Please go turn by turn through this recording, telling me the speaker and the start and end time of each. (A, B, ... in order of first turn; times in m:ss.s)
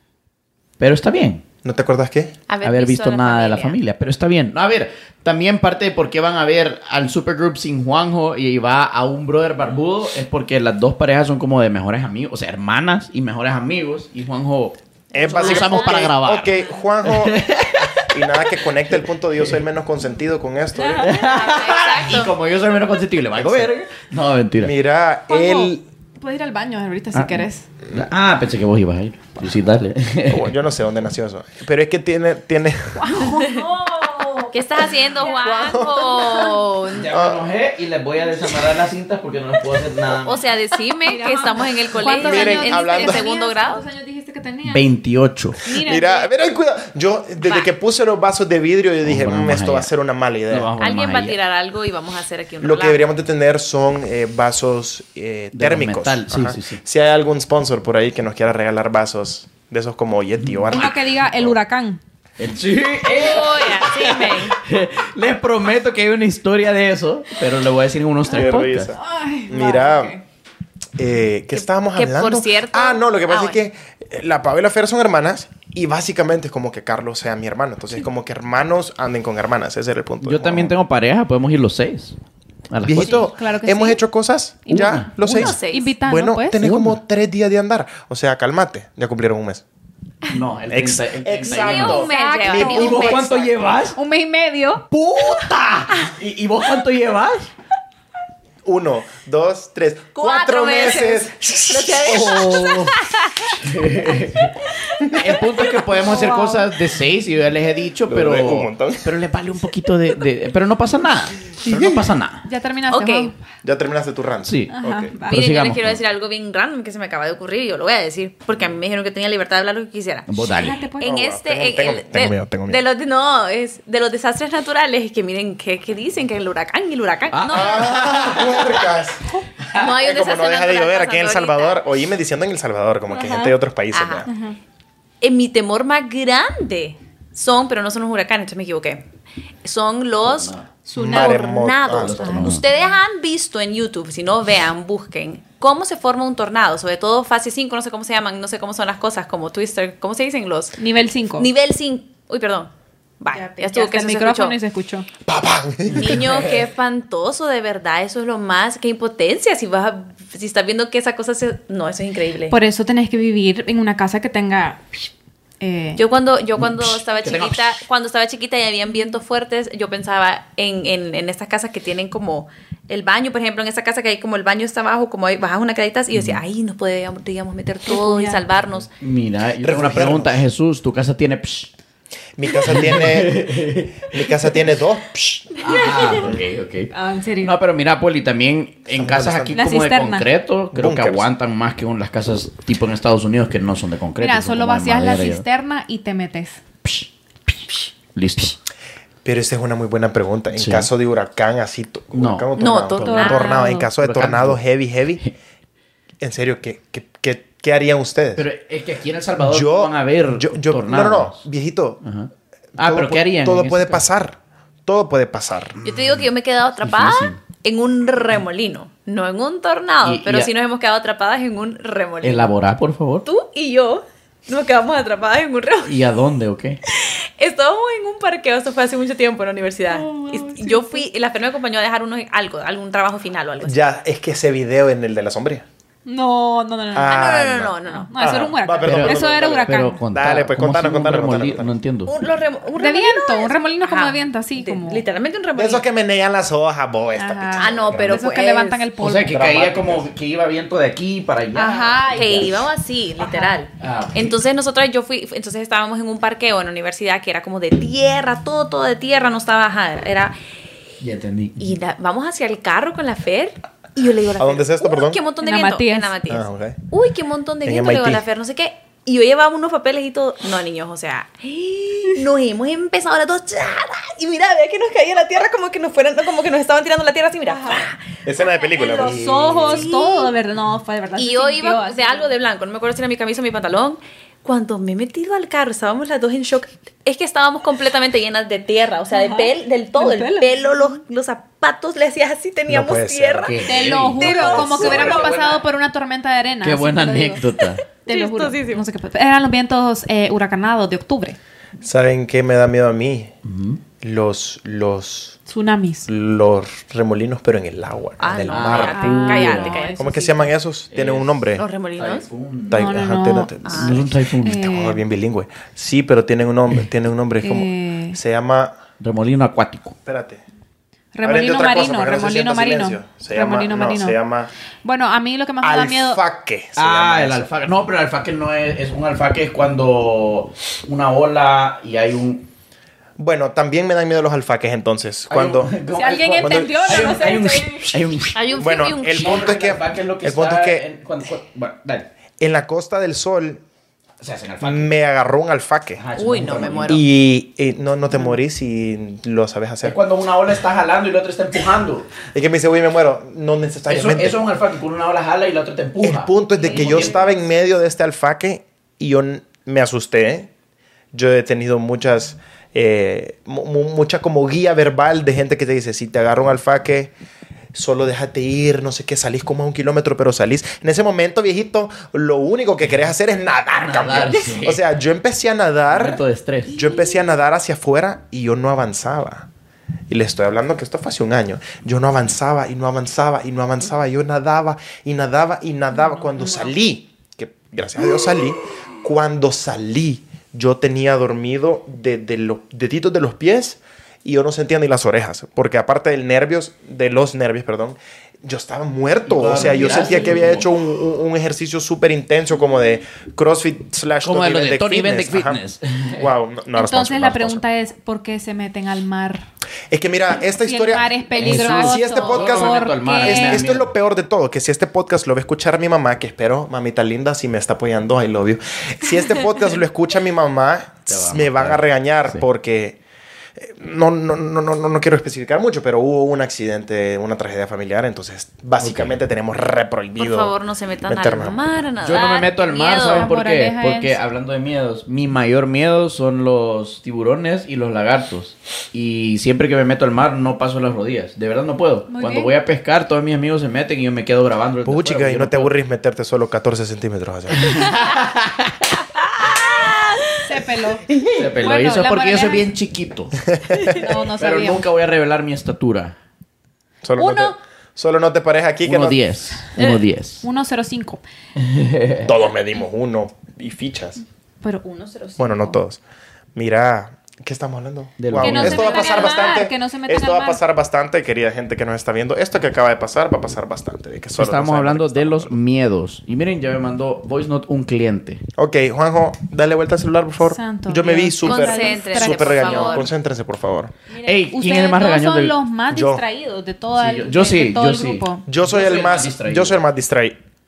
0:00.8-0:01.4 A
0:01.6-0:02.3 B
0:02.5-0:03.8 C
0:02.6-0:19.5 A
0:15.1-0:21.1 B
0:15.3-0:16.0 C
0:21.0-0:24.7 A
0:21.1-0:22.3 C
0:23.3-0:23.7 B
0:24.6-0:25.8 B
0:25.3-0:27.7 D
0:27.1-0:30.5 A
0:30.3-0:33.1 B
0:33.0-0:36.6 D
0:33.3-0:33.6 C
0:34.5-0:37.1 C
0:35.3-0:36.4 B
0:36.9-0:40.4 A
0:37.1-0:37.5 B
0:40.2-0:43.9 C
0:41.0-0:44.9 D
0:42.2-0:43.3 B
0:44.6-0:45.6 A
0:45.6-0:46.3 D
0:45.8-0:50.7 B
0:47.4-0:47.7 C
0:49.0-0:49.9 A
0:50.5-0:51.4 A
0:50.8-0:53.1 C
0:52.6-1:01.6 B
0:55.5-0:56.8 A
1:00.4-1:00.9 A
1:00.7-1:02.0 D
1:02.4-1:08.9 A
1:03.1-1:04.6 C
1:08.3-1:10.2 D
1:08.3-1:10.2 B
1:11.0-1:20.8 B
1:11.5-1:13.6 C
1:20.2-1:22.2 A
1:22.7-1:23.3 A
1:22.8-1:29.6 B
1:23.0-1:24.0 D
1:24.7-1:26.7 D
1:24.7-1:25.1 A
1:25.2-1:25.9 C
1:26.6-1:27.0 A
1:30.3-1:34.0 A
1:30.7-1:33.2 B
1:31.4-1:33.7 C
1:31.9-1:33.1 D
1:33.9-1:34.9 D
1:34.9-1:37.5 A
1:38.6-1:42.8 B
1:40.1-1:43.6 C
1:42.0-1:43.0 A
1:43.6-1:44.6 A
1:44.8-1:45.8 C
1:45.1-1:52.4 A
1:45.9-1:46.7 D
1:48.1-1:49.1 B
1:51.6-1:52.1 B
1:52.4-1:53.4 D
1:52.9-1:53.3 C
1:53.6-1:55.2 B
1:54.4-1:54.7 A
1:54.7-1:55.5 D
1:55.3-1:56.0 A
1:55.3-2:00.3 C
2:00.3-2:00.8 A
2:00.5-2:01.1 D
2:00.9-2:08.0 C
2:01.0-2:02.8 B
2:07.3-2:08.9 A
2:07.5-2:09.2 B
2:09.7-2:11.8 C
2:09.8-2:14.3 B
2:13.1-2:13.6 D
2:13.9-2:14.3 C
2:14.3-2:14.6 D
2:15.2-2:19.0 C
2:19.6-2:30.8 C
2:20.2-2:20.7 A
2:20.9-2:21.6 D
2:21.0-2:22.5 B
2:21.9-2:22.7 A
2:30.8-2:31.5 D
2:31.4-2:34.6 C
2:33.3-2:35.1 D
2:35.3-2:36.2 B
2:35.9-2:36.7 A
2:36.0-2:42.6 C
2:42.5-2:45.0 D
2:45.6-2:46.0 D
2:46.0-2:58.9 C
2:46.6-2:47.8 A
2:56.1-2:56.4 A
2:57.9-2:58.4 D
2:59.0-3:01.7 A
2:59.6-3:00.4 B
3:02.4-3:06.4 B
3:02.6-3:04.6 A
3:05.6-3:15.4 A
3:05.7-3:06.2 D
3:06.9-3:07.6 D
3:08.9-3:09.7 B
3:09.5-3:10.3 D
3:10.7-3:11.3 B
3:14.2-3:16.6 D
3:16.8-3:18.6 A
3:19.2-3:25.2 B
3:20.5-3:20.9 A
3:22.1-3:23.1 A
3:22.6-3:23.8 C
3:23.0-3:23.9 D
3:24.0-3:24.6 A
3:26.2-3:28.5 B
3:28.4-3:31.5 A
3:29.4-3:32.0 B
3:32.0-3:34.0 A
3:32.8-3:35.8 B
3:35.8-3:36.3 A
3:35.8-3:42.5 C
3:36.8-3:37.4 A
3:40.0-3:40.5 A
3:42.2-3:43.3 A
3:43.2-3:46.0 C
3:45.8-3:46.8 A
3:46.9-3:53.8 C
3:49.9-3:51.1 D
3:53.6-3:55.6 B
3:56.1-3:57.3 D
3:56.9-4:01.7 B
3:57.1-3:58.1 C
3:57.9-4:00.0 D
3:58.8-4:02.1 A
4:02.1-4:05.8 C
4:02.8-4:05.0 D
4:05.6-4:08.2 B
4:07.2-4:09.4 D
4:07.6-4:08.9 C
4:09.0-4:12.6 A
4:09.2-4:10.1 B
4:11.5-4:12.5 D
4:12.0-4:20.4 C
4:13.2-4:13.6 D
4:13.8-4:14.4 A
4:21.0-4:21.7 A
4:21.6-4:38.1 C
4:24.4-4:25.2 B
4:25.4-4:26.1 D
4:26.3-4:26.8 B
4:27.6-4:28.2 B
4:37.5-4:37.9 D
4:38.2-4:39.9 B
4:38.7-4:42.3 D
4:39.7-4:40.3 C
4:41.2-4:55.6 C
4:49.1-4:50.7 D
4:52.7-4:53.6 B
4:53.4-4:55.6 A
4:53.7-4:57.4 D
4:56.6-4:57.8 A
4:58.1-4:58.8 C
4:58.1-5:01.4 D
5:01.8-5:03.3 B
5:03.4-5:03.8 A
5:04.0-5:05.4 B
5:05.5-5:06.1 D
5:06.1-5:09.0 B
5:08.2-5:10.3 C
5:08.5-5:09.8 A
5:08.9-5:10.5 D
5:10.0-5:11.6 B
5:10.9-5:11.4 A
5:11.6-5:12.3 C
5:12.0-5:12.9 A
5:12.7-5:18.8 B
5:12.7-5:13.5 D
5:13.6-5:14.0 C
5:13.7-5:14.7 A
5:14.4-5:15.0 D
5:17.4-5:18.2 D
5:19.0-5:20.0 A
5:20.0-5:20.4 B
5:21.1-5:24.2 D
5:21.2-5:24.5 B
5:24.8-5:26.2 D
5:25.6-5:27.5 B
5:26.8-5:32.5 A
5:33.2-5:35.8 B
5:35.3-5:42.1 A
5:35.9-5:38.0 D
5:36.4-5:37.2 B
5:38.3-5:39.5 C
5:38.6-5:40.9 B
5:42.4-5:43.6 B
5:44.2-5:44.9 A
5:44.6-5:46.0 B
5:46.0-5:47.0 A
5:46.2-5:47.0 C
5:46.8-5:50.0 B
5:49.8-5:52.1 A
5:52.3-5:54.4 B
5:53.9-5:57.3 A
5:56.0-6:00.5 B
5:56.6-5:56.9 D
6:01.1-6:07.1 B
6:07.7-6:19.5 B
6:13.7-6:14.8 A
6:15.9-6:16.7 A
6:20.1-6:45.6 B
6:25.9-6:26.7 D
6:39.3-6:40.7 A
6:44.2-6:46.3 A
6:46.2-6:47.6 B
6:46.7-6:49.4 D
6:49.9-7:03.0 B
6:50.7-6:53.6 D
6:51.4-6:53.9 A
7:01.1-7:02.4 A
7:03.6-7:10.5 B
7:08.8-7:09.2 A
7:10.2-7:13.3 C
7:11.1-7:11.6 B
7:12.0-7:25.7 A
7:13.1-7:14.2 D
7:22.1-7:22.5 D
7:24.8-7:27.9 B
7:27.6-7:29.0 A
7:29.4-7:30.2 C
7:30.4-7:32.7 D
7:31.3-7:33.4 A
7:33.5-7:34.0 B
7:33.9-7:34.8 D
7:34.4-7:36.1 A
7:37.0-7:39.2 B
7:37.2-7:37.6 D
7:38.8-7:40.4 A
7:39.8-7:41.2 D
7:41.6-7:42.3 A
7:42.2-7:44.2 B
7:44.6-7:45.8 D
7:45.4-7:46.0 B
7:46.6-7:55.6 B
7:48.2-7:49.3 A
7:48.4-7:50.6 D
7:54.4-7:58.4 A
7:58.6-8:03.9 B
8:00.4-8:03.1 D
8:01.4-8:03.1 C
8:04.1-8:08.4 D
8:04.2-8:05.6 A
8:05.9-8:06.2 B
8:07.0-8:09.8 A
8:08.5-8:10.4 B